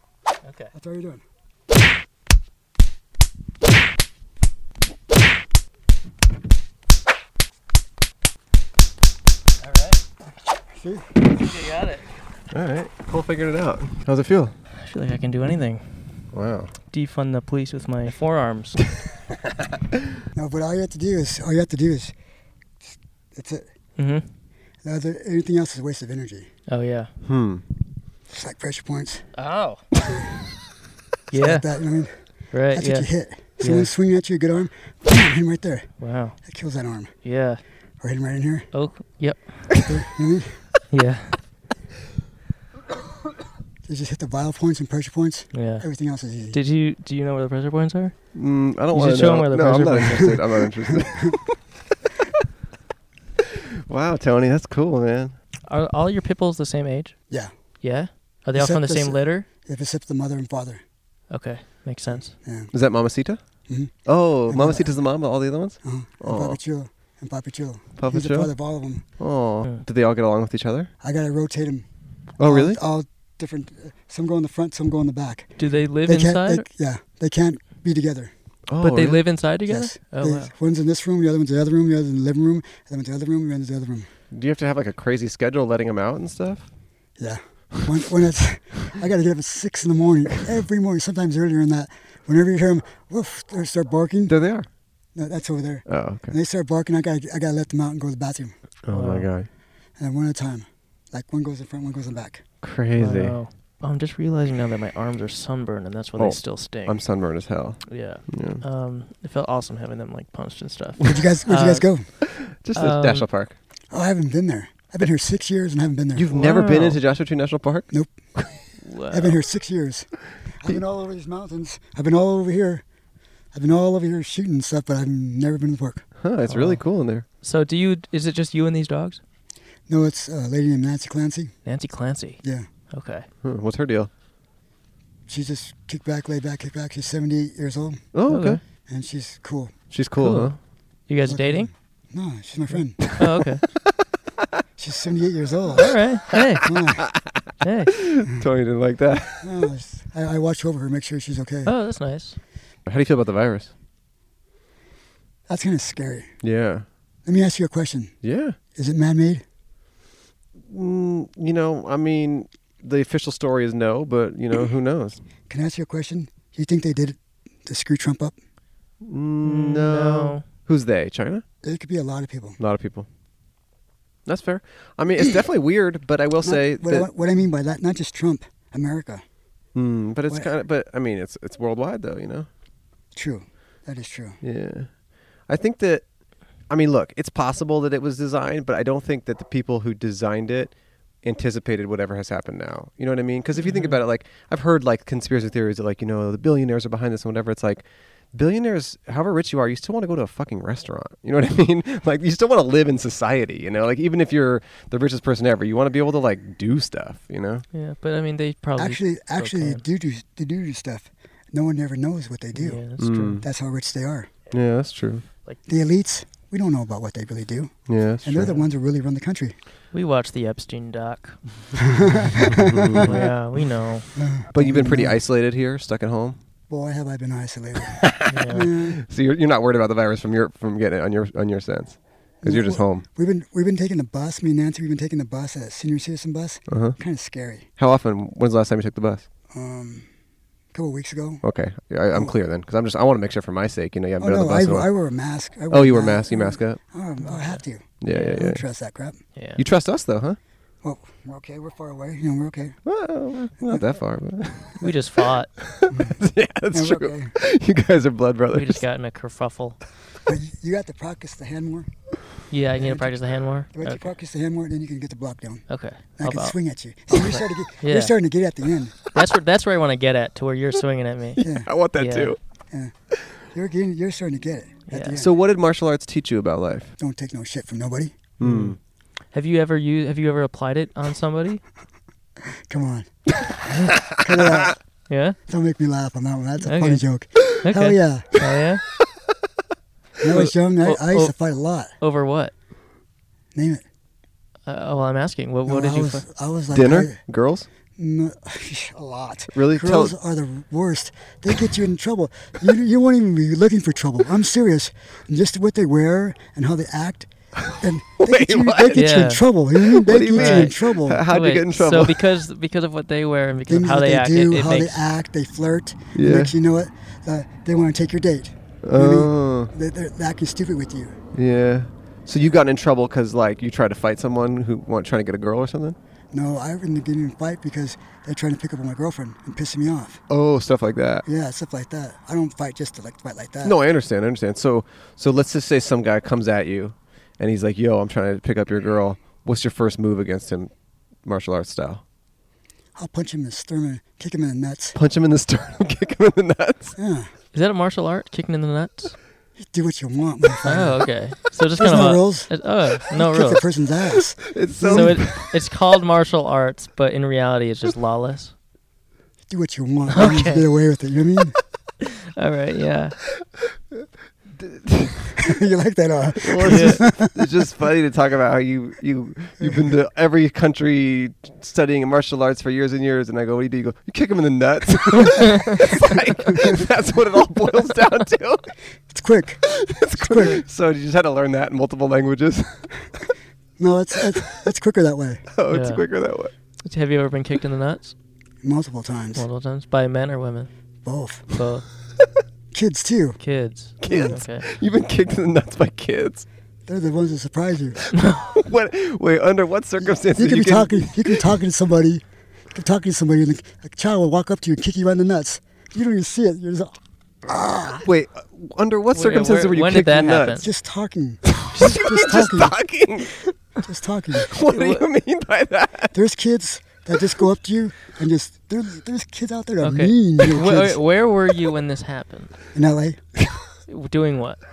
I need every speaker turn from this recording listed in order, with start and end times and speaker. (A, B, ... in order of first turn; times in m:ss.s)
0:00.4-0:00.7 A
0:00.7-0:01.2 B
0:09.6-0:10.0 A
0:10.7-0:11.2 B
0:11.3-0:12.0 A
0:12.5-0:14.6 C
0:14.8-0:16.2 A
0:16.3-0:16.7 C
0:16.9-0:18.8 A
0:20.3-0:22.1 B
0:22.8-0:23.7 B
0:24.0-0:24.3 A
0:24.8-0:26.5 B
0:26.7-0:27.1 A
0:27.2-0:27.6 C
0:28.3-0:29.3 B
0:29.4-0:29.8 A
0:31.3-0:31.7 A
0:31.3-0:32.1 B
0:32.5-0:33.9 A
0:32.7-0:35.9 B
0:36.0-0:36.4 A
0:36.4-0:37.1 B
0:37.2-0:37.6 A
0:38.0-0:38.7 B
0:38.7-0:39.7 A
0:39.8-0:40.6 B
0:40.9-0:41.4 A
0:43.8-0:46.6 B
0:45.5-0:45.9 A
0:46.5-0:48.2 A
0:48.3-0:51.3 C
0:48.9-0:50.4 A
0:50.9-0:51.4 B
0:53.9-0:55.4 C
0:55.7-0:57.2 A
0:57.8-0:59.5 A
0:58.6-1:00.8 B
1:01.3-1:02.3 A
1:02.4-1:02.7 B
1:02.7-1:03.4 C
1:03.7-1:05.0 B
1:04.1-1:06.6 C
1:05.8-1:09.0 B
1:08.0-1:08.5 C
1:09.2-1:10.9 C
1:11.0-1:11.9 B
1:12.4-1:12.8 C
1:12.4-1:18.3 B
1:15.6-1:16.6 A
1:18.7-1:19.2 C
1:18.8-1:20.5 A
1:19.7-1:24.1 B
1:24.3-1:26.7 C
1:27.2-1:34.4 B
1:34.3-1:34.7 C
1:35.2-1:38.5 B
1:35.9-1:36.4 C
1:38.8-1:39.5 C
1:38.9-1:39.3 A
1:40.0-1:42.4 B
1:42.6-1:43.4 C
1:43.0-1:47.0 A
1:46.2-1:48.6 C
1:47.9-1:51.9 A
1:51.0-1:52.1 B
1:52.2-1:53.6 C
1:52.8-1:53.3 A
1:53.9-1:56.3 B
1:56.2-1:58.4 C
1:56.3-1:57.0 A
1:57.9-1:58.6 B
1:58.8-1:59.4 A
1:59.1-2:02.8 B
2:03.5-2:06.1 B
2:06.2-2:07.2 C
2:06.5-2:09.2 A
2:09.9-2:11.5 B
2:11.6-2:13.3 A
2:13.4-2:14.1 C
2:15.3-2:18.0 B
2:18.1-2:18.6 C
2:18.3-2:18.6 A
2:18.9-2:19.7 B
2:19.9-2:20.6 C
2:20.2-2:20.6 A
2:21.1-2:21.7 A
2:21.2-2:23.2 B
2:22.7-2:23.6 A
2:24.8-2:26.0 B
2:25.8-2:26.6 A
2:26.3-2:29.4 C
2:26.6-2:27.1 B
2:27.6-2:27.9 A
2:29.3-2:31.7 B
2:31.7-2:32.4 A
2:32.9-2:33.7 C
2:35.5-2:36.3 B
2:36.4-2:36.8 C
2:37.2-2:38.1 B
2:38.2-2:38.6 C
2:38.8-2:39.4 B
2:40.6-2:45.2 C
2:45.5-2:48.4 B
2:49.0-2:51.4 C
2:49.4-2:50.4 A
2:51.6-2:52.6 B
2:52.6-2:53.1 C
2:54.3-2:57.1 C
2:56.4-2:59.2 B
2:59.8-3:02.5 C
3:03.2-3:04.4 B
3:04.4-3:04.9 C
3:05.5-3:06.1 C
3:06.7-3:27.6 C
3:13.6-3:14.0 A
3:27.7-3:29.8 A
3:28.8-3:32.8 B
3:32.6-3:33.4 A
3:33.0-3:33.4 C
3:33.4-3:34.3 B
3:34.5-3:35.2 C
3:35.7-3:39.6 B
3:37.9-3:38.5 C
3:39.9-3:42.4 A
3:41.8-3:43.3 B
3:42.6-3:43.3 C
3:43.0-3:44.1 A
3:44.2-3:45.2 B
3:44.5-3:46.4 C
3:46.7-3:49.0 B
3:47.9-3:53.0 C
3:48.3-3:48.7 A
3:52.4-3:57.7 B
3:56.7-3:57.0 C
3:57.8-3:59.3 C
3:59.5-4:00.1 B
4:00.7-4:01.4 B
4:01.4-4:04.9 C
4:04.2-4:09.2 B
4:05.7-4:06.8 C
4:07.2-4:08.4 A
4:08.0-4:08.6 C
4:09.4-4:09.6 A
4:09.6-4:10.4 C
4:10.8-4:12.8 B
4:12.9-4:14.9 C
4:14.8-4:15.5 A
4:15.6-4:18.8 C
4:15.9-4:17.3 B
4:18.5-4:19.8 A
4:20.3-4:21.9 B
4:22.5-4:24.1 A
4:22.8-4:23.2 B
4:23.7-4:29.0 B
4:25.7-4:26.6 A
4:27.1-4:28.1 A
4:29.1-4:31.4 A
4:31.4-4:32.4 C
4:31.4-4:31.7 B
4:32.0-4:32.3 A
4:33.5-4:35.3 B
4:34.9-4:35.2 A
4:35.2-4:36.9 C
4:37.0-4:38.2 B
4:38.4-4:38.8 C
4:38.4-4:38.8 A
4:39.3-4:41.6 A
4:42.4-4:43.1 B
4:43.9-4:44.8 C
4:44.1-4:44.8 B
4:45.1-4:45.4 A
4:45.5-4:48.4 B
4:46.6-4:47.0 A
4:47.6-4:48.8 A
4:50.2-4:51.9 B
4:50.8-4:51.3 A
4:52.0-4:52.5 A
4:53.6-4:53.8 B
4:54.7-4:56.2 A
4:55.7-4:57.2 B
4:56.7-4:57.7 C
4:58.0-5:11.2 B
4:59.6-5:00.2 C
5:07.7-5:09.2 C
5:08.9-5:09.4 A
5:09.8-5:12.2 C
5:10.3-5:10.7 A
5:11.3-5:15.0 A
5:13.7-5:21.2 B
5:16.2-5:16.5 C
5:18.8-5:19.7 C
5:21.4-5:26.0 C
5:26.3-5:30.2 B
5:30.3-5:31.2 C
5:31.2-5:33.8 B
5:33.6-5:40.7 C
5:41.2-5:42.0 C
5:43.0-5:45.0 B
5:45.0-5:47.0 C
5:47.0-5:47.3 B
5:47.5-5:49.2 A
5:49.6-5:51.1 B
5:50.6-5:53.6 A
5:51.8-5:52.6 B
5:53.2-5:55.3 B
5:54.5-5:55.6 C
5:54.9-5:58.5 A
5:59.5-6:01.6 B
6:00.1-6:00.7 A
6:02.3-6:03.2 A
6:04.6-6:05.4 C
6:05.4-6:07.6 B
6:06.4-6:18.8 C
6:06.6-6:07.0 A
6:09.6-6:09.9 B
6:16.5-6:16.8 B
6:19.1-6:20.6 B
6:19.6-6:23.1 C
6:23.8-6:25.5 B
6:25.5-6:26.5 C
6:25.7-6:26.0 A
6:26.8-6:28.1 A
6:28.6-6:29.5 B
6:29.4-6:30.7 A
6:31.0-6:31.5 B
6:31.5-6:31.9 A
6:32.7-6:33.4 B
6:33.4-6:34.7 A
6:34.0-6:36.5 C
6:34.0-6:34.4 B
6:36.9-6:38.0 B
6:38.2-6:41.4 C
6:40.0-6:48.0 B
6:48.0-6:50.6 C
6:49.1-6:50.7 A
6:50.6-6:52.8 B
6:51.6-6:53.6 C
6:53.8-6:54.5 B
6:54.4-6:56.2 C
6:54.6-6:55.0 A
6:56.1-7:01.0 B
6:59.8-7:02.5 A
7:02.7-7:03.2 B
7:03.9-7:04.6 A